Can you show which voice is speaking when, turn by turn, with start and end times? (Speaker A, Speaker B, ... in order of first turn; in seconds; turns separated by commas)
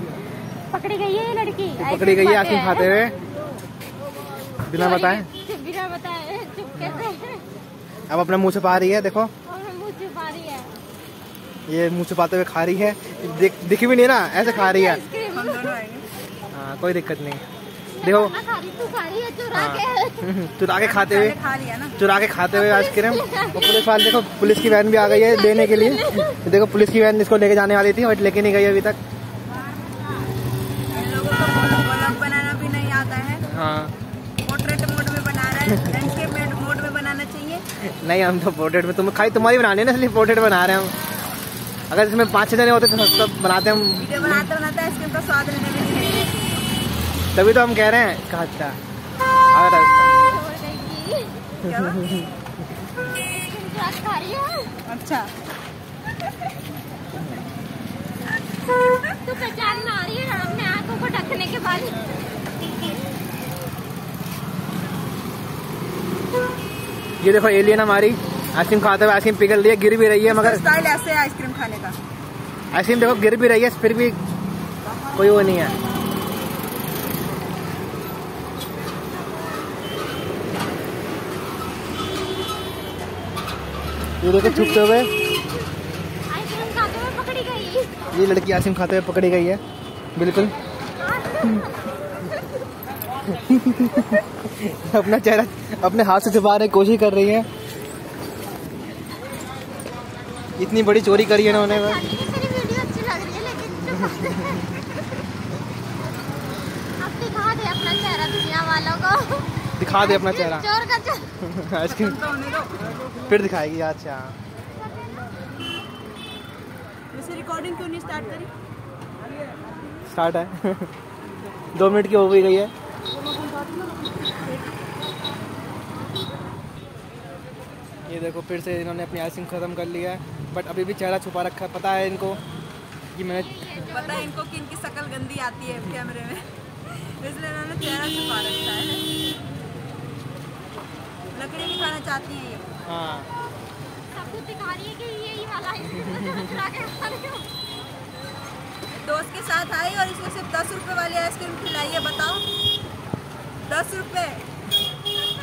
Speaker A: 0.7-3.0, Speaker B: 1.8-3.1, Speaker B: 4.7-5.3, Speaker A: 4.7-7.4, Speaker B: 6.8-7.1, Speaker B: 8.1-9.3, Speaker A: 9.4-10.7, Speaker B: 11.7-15.0, Speaker A: 14.4-15.8, Speaker C: 15.3-16.1, Speaker B: 16.5-17.4, Speaker A: 18.0-20.2, Speaker B: 18.0-18.4, Speaker B: 19.5-21.4, Speaker C: 20.8-22.0, Speaker B: 21.9-29.0, Speaker A: 22.5-24.0, Speaker A: 24.7-26.3, Speaker C: 30.9-33.5, Speaker B: 33.5-33.9, Speaker C: 34.4-37.6, Speaker B: 35.7-36.0, Speaker B: 37.8-40.9, Speaker B: 41.9-44.5, Speaker C: 44.0-46.4, Speaker B: 47.3-48.8, Speaker B: 49.5-50.1, Speaker A: 50.2-51.4, Speaker C: 51.6-52.1, Speaker B: 51.6-52.3, Speaker A: 53.1-54.7, Speaker C: 54.9-55.3, Speaker A: 59.2-62.0, Speaker B: 67.2-70.6, Speaker C: 70.2-72.0, Speaker B: 72.7-74.2, Speaker B: 75.1-75.7, Speaker B: 84.2-85.1, Speaker C: 84.5-84.8, Speaker A: 86.3-87.9, Speaker B: 88.1-89.6, Speaker B: 90.2-90.5, Speaker A: 91.0-91.7, Speaker B: 93.3-97.5, Speaker B: 100.6-102.0, Speaker A: 101.3-104.7, Speaker B: 103.8-104.7, Speaker A: 107.0-111.3, Speaker B: 109.8-110.7, Speaker B: 111.4-112.2, Speaker C: 111.8-112.8, Speaker B: 112.9-114.3, Speaker C: 117.1-118.5, Speaker B: 120.0-120.9, Speaker B: 121.7-122.7, Speaker B: 128.1-132.4, Speaker B: 133.1-133.6, Speaker A: 133.3-134.3, Speaker C: 133.9-139.1, Speaker C: 141.3-142.7, Speaker B: 142.8-143.3, Speaker A: 144.1-147.5, Speaker B: 145.9-146.6, Speaker C: 149.0-152.4, Speaker C: 153.7-154.4